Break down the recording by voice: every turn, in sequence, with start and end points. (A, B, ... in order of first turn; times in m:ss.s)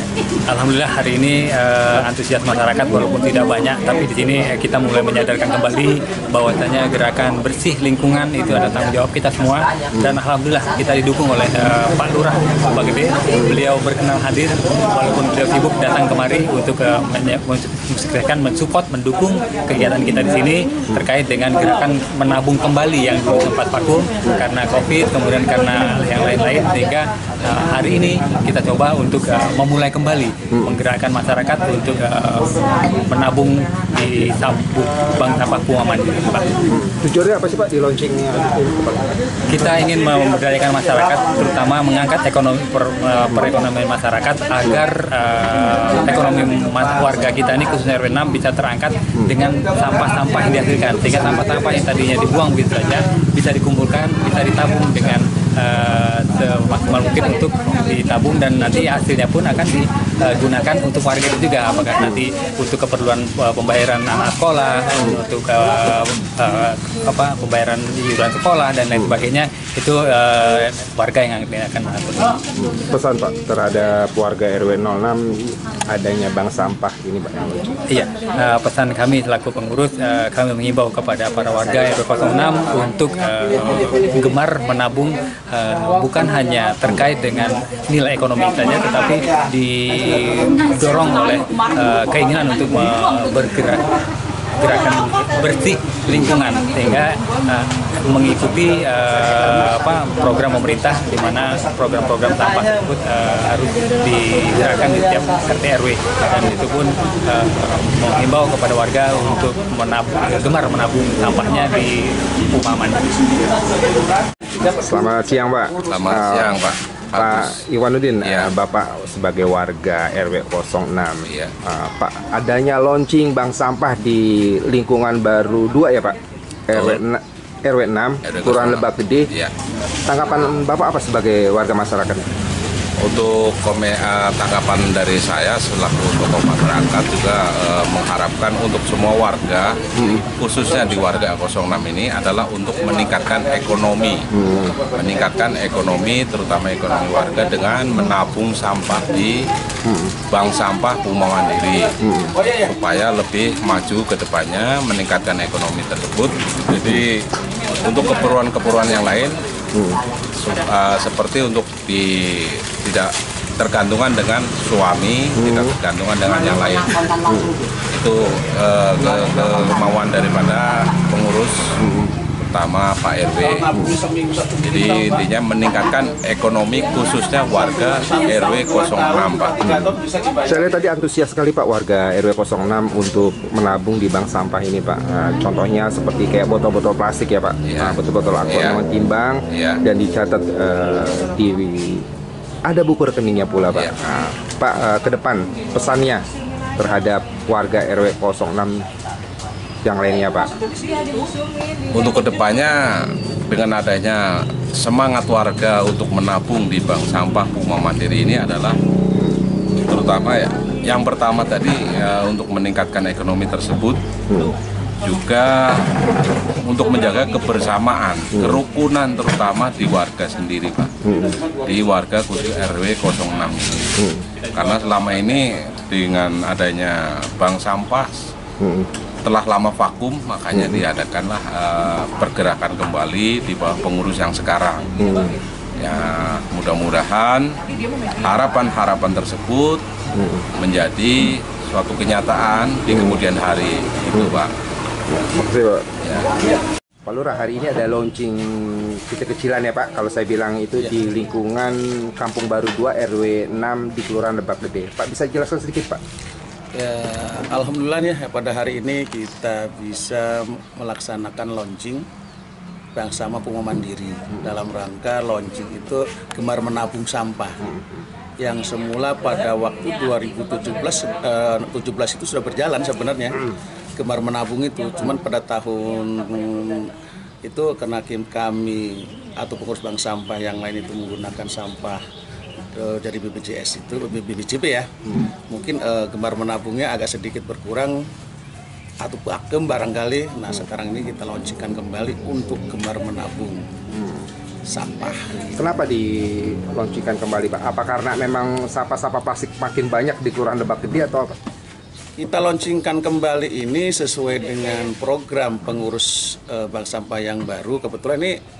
0:00.5-0:36.5 A
0:09.9-0:10.2 B
0:12.7-0:13.6 B
0:36.7-0:39.0 B
0:39.5-1:12.4 A
1:12.6-1:17.8 B
1:17.9-1:33.9 A
1:34.6-1:53.1 A
1:54.7-1:56.6 B
1:55.9-1:57.6 C
1:57.2-2:06.2 B
1:58.2-1:58.5 C
2:01.2-2:01.5 C
2:06.7-2:09.3 B
2:06.7-2:07.0 C
2:08.2-2:09.5 C
2:10.1-2:12.2 B
2:13.0-2:24.2 C
2:20.0-2:20.2 B
2:24.3-2:24.8 B
2:24.9-2:29.5 C
2:29.8-2:30.1 B
2:30.3-2:31.9 C
2:32.0-2:32.4 B
2:32.6-2:39.4 C
2:39.7-2:40.0 B
2:40.4-2:47.0 C
2:45.4-2:45.7 B
2:47.2-2:47.5 B
2:47.9-2:51.7 C
2:51.8-2:52.1 B
2:52.4-2:53.7 C
2:53.4-2:55.2 D
2:54.6-2:59.6 C
2:57.6-3:00.6 D
2:59.6-3:12.0 B
3:07.6-3:08.8 C
3:09.5-3:09.8 C
3:12.6-3:16.2 B
3:16.8-3:18.8 B
3:19.8-3:20.5 B
3:21.9-3:28.8 C
3:29.8-3:34.0 C
3:34.3-3:34.5 B
3:35.0-3:35.9 C
3:36.6-3:40.9 C
3:41.0-3:41.4 B
3:41.6-3:48.2 C
3:44.0-3:44.2 B
3:48.6-3:48.9 B
3:49.2-3:55.0 C
3:50.5-3:50.8 B
3:55.0-3:55.3 B
3:55.8-3:57.6 C
3:58.2-3:59.8 C
4:00.1-4:00.4 B
4:00.6-4:04.5 C
4:02.9-4:03.2 B
4:04.1-4:04.4 B
4:05.1-4:05.9 B
4:07.0-4:16.0 B
4:16.7-4:22.0 D
4:22.9-4:27.6 D
4:27.6-4:28.0 B
4:28.4-4:33.4 D
4:34.0-4:36.9 D
4:37.4-4:42.0 D
4:42.7-4:44.9 D
4:45.5-4:48.0 D
4:49.0-4:53.7 D
4:53.9-4:54.3 B
4:54.7-4:55.3 D
4:55.5-5:01.4 B
5:02.2-5:08.4 D